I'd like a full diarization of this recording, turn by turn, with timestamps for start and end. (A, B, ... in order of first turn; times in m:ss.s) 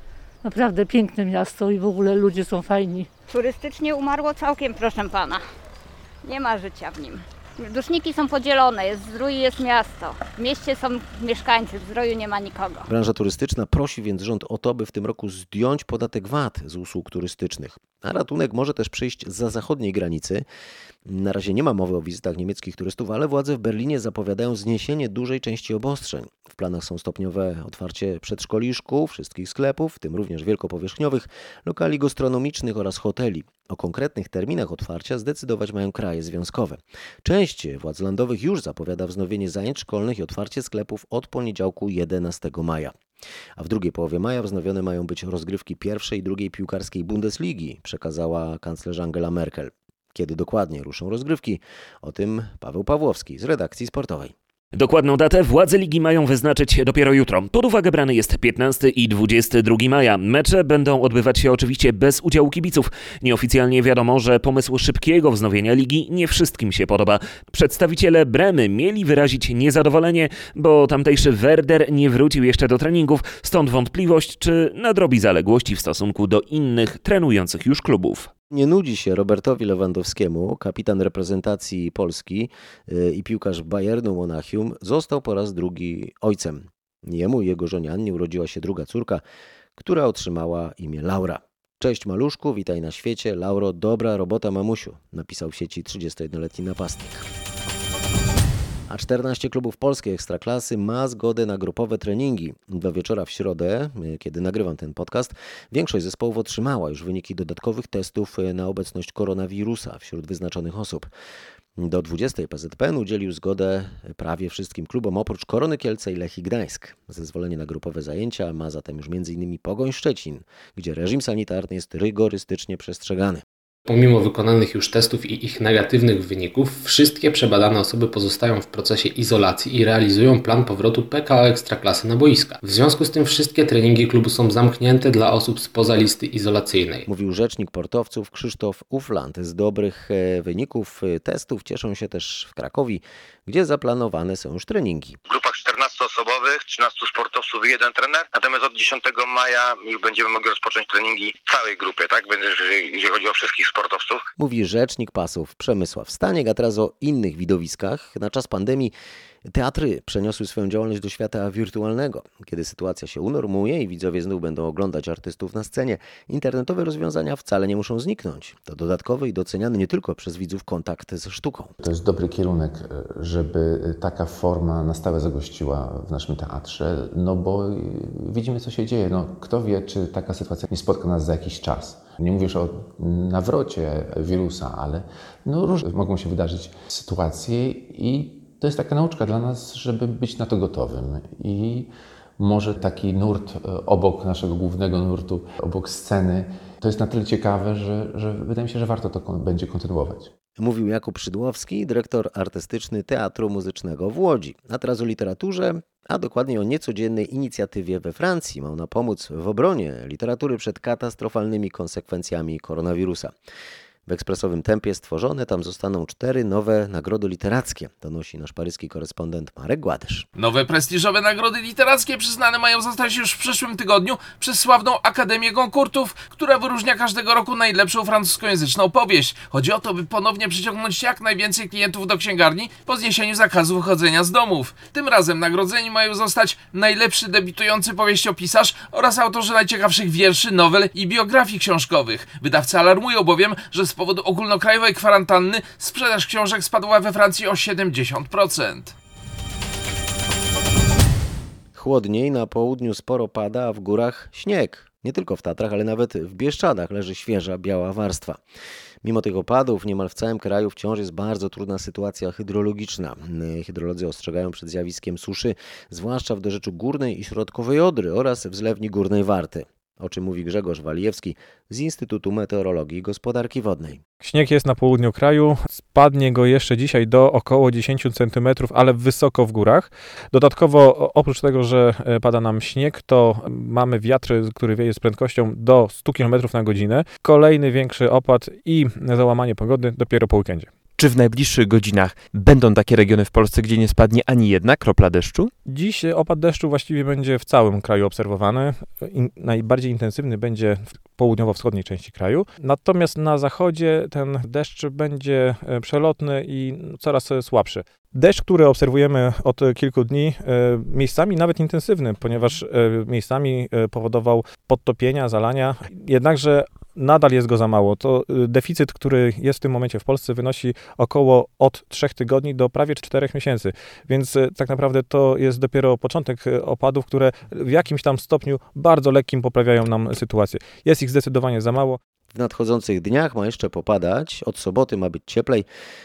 0:00.4-0:03.1 A
0:03.3-0:05.4 B
0:06.2-0:12.9 B
0:12.8-0:20.4 C
0:21.0-0:42.9 C
0:43.6-0:54.3 C
0:54.7-1:18.3 D
1:18.5-1:29.2 C
1:29.8-1:37.2 C
1:38.9-1:51.1 C
1:51.8-2:03.4 C
2:03.9-2:17.1 E
2:17.1-2:25.2 C
2:25.2-2:34.2 F
2:34.4-2:38.9 C
2:39.4-2:51.7 C
2:51.8-3:20.3 G
3:20.6-3:33.3 C
3:34.0-3:40.3 C
3:40.4-4:08.9 H
4:11.7-4:18.4 C
4:19.0-4:34.0 C
4:34.2-4:50.7 I
4:51.0-4:55.5 J
4:55.6-5:32.0 I
5:32.3-5:35.7 C